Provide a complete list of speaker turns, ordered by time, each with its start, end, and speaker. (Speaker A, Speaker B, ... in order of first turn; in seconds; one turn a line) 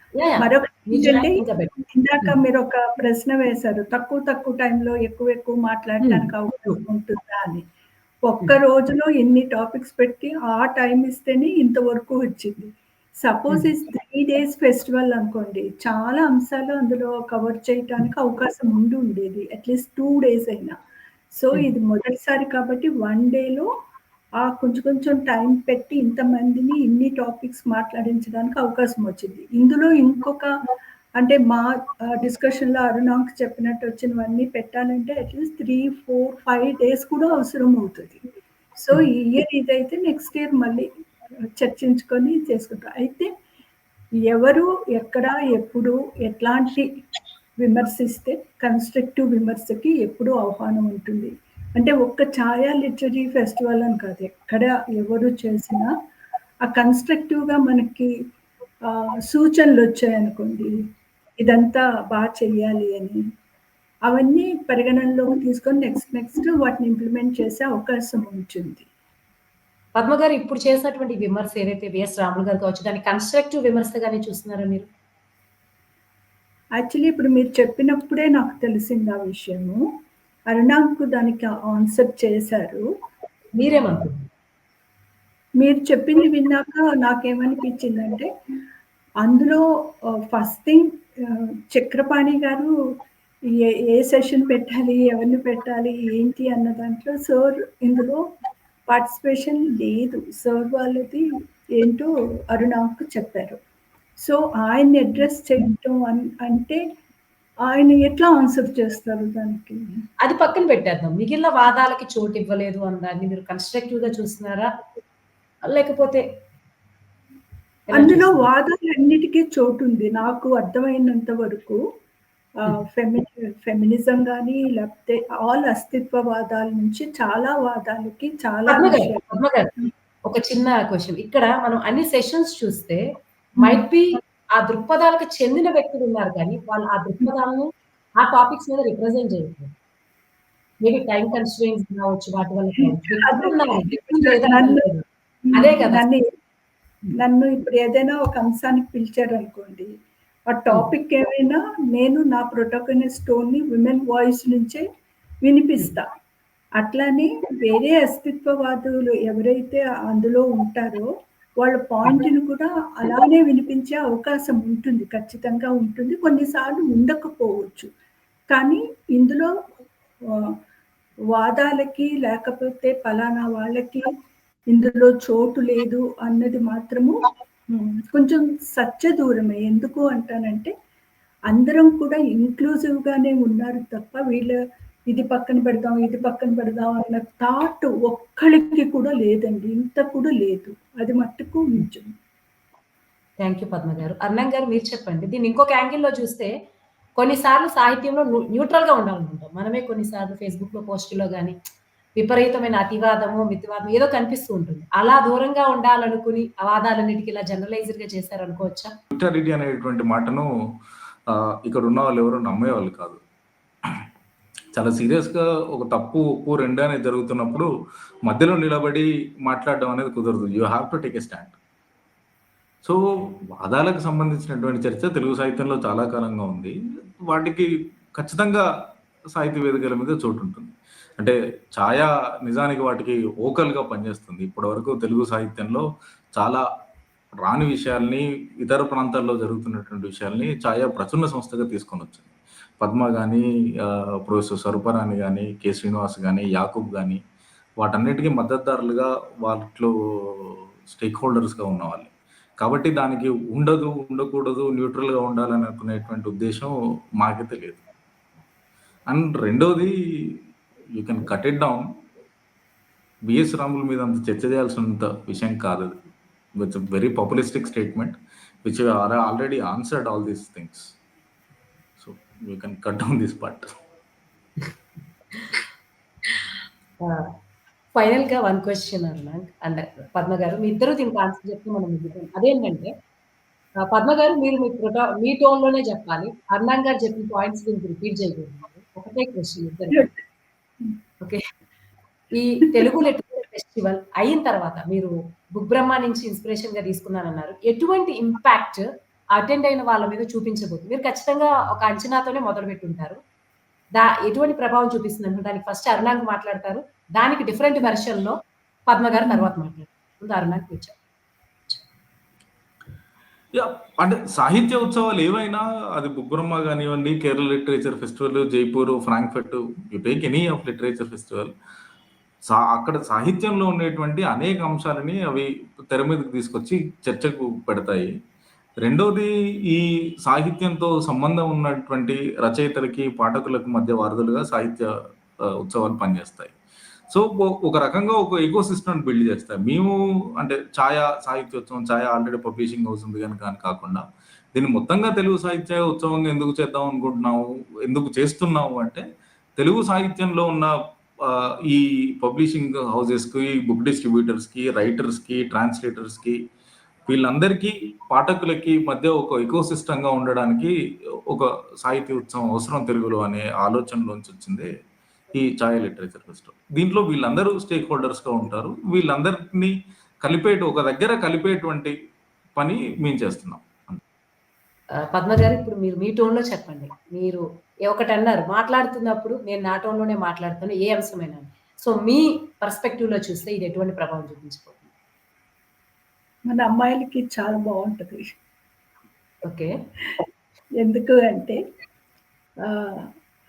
Speaker A: 0.2-2.4
Speaker B: 0.4-7.7
Speaker A: 6.0-6.8
Speaker B: 8.2-20.8
Speaker B: 21.3-23.7
Speaker B: 24.4-30.5
Speaker B: 31.2-38.2
Speaker B: 38.8-40.9
Speaker B: 41.5-43.3
Speaker B: 44.3-46.9
Speaker B: 47.6-55.9
Speaker B: 56.7-58.1
Speaker B: 58.9-60.8
Speaker B: 61.4-63.2
Speaker B: 64.1-68.9
Speaker A: 70.0-74.9
Speaker B: 76.8-79.9
Speaker B: 80.5-82.9
Speaker A: 83.6-84.3
Speaker B: 85.6-88.3
Speaker B: 89.2-92.7
Speaker B: 93.5-98.2
Speaker B: 98.9-103.6
Speaker B: 104.2-106.8
Speaker B: 107.7-110.0
Speaker A: 110.2-114.7
Speaker A: 115.7-116.2
Speaker A: 117.9-118.5
Speaker B: 117.9-121.8
Speaker B: 122.6-129.4
Speaker A: 128.7-129.7
Speaker A: 130.3-139.7
Speaker A: 140.8-146.1
Speaker B: 142.8-144.9
Speaker B: 145.4-146.3
Speaker B: 147.2-149.9
Speaker B: 150.5-154.8
Speaker B: 155.4-156.1
Speaker B: 156.8-167.9
Speaker B: 168.5-169.5
Speaker B: 170.3-170.6
Speaker B: 171.3-174.1
Speaker B: 174.7-180.7
Speaker B: 181.5-184.6
Speaker B: 185.1-192.1
Speaker A: 193.4-196.5
Speaker A: 197.2-201.6
Speaker A: 202.2-208.9
Speaker C: 209.1-210.5
Speaker C: 211.3-213.2
Speaker C: 214.8-217.7
Speaker C: 218.3-221.5
Speaker C: 222.8-226.7
Speaker C: 227.2-228.7
Speaker C: 229.3-236.6
Speaker C: 237.4-242.3
Speaker C: 242.8-247.2
Speaker C: 247.8-257.8
Speaker C: 259.1-260.4
Speaker C: 261.0-261.9
Speaker C: 263.3-266.0
Speaker C: 266.6-270.9
Speaker C: 272.0-273.7
Speaker A: 277.0-277.3
Speaker A: 277.9-282.9
Speaker A: 283.8-290.1
Speaker A: 292.3-303.2
Speaker A: 304.0-308.4
Speaker A: 308.9-311.0
Speaker C: 313.5-321.5
Speaker C: 322.5-328.1
Speaker C: 328.8-334.9
Speaker C: 335.4-336.5
Speaker C: 337.1-344.0
Speaker C: 344.5-349.0
Speaker C: 349.6-356.4
Speaker C: 357.1-360.7
Speaker C: 361.3-364.7
Speaker C: 365.3-371.9
Speaker C: 372.6-374.0
Speaker A: 375.0-384.9
Speaker B: 386.5-388.2
Speaker A: 389.4-389.7
Speaker B: 390.8-391.6
Speaker B: 392.6-393.1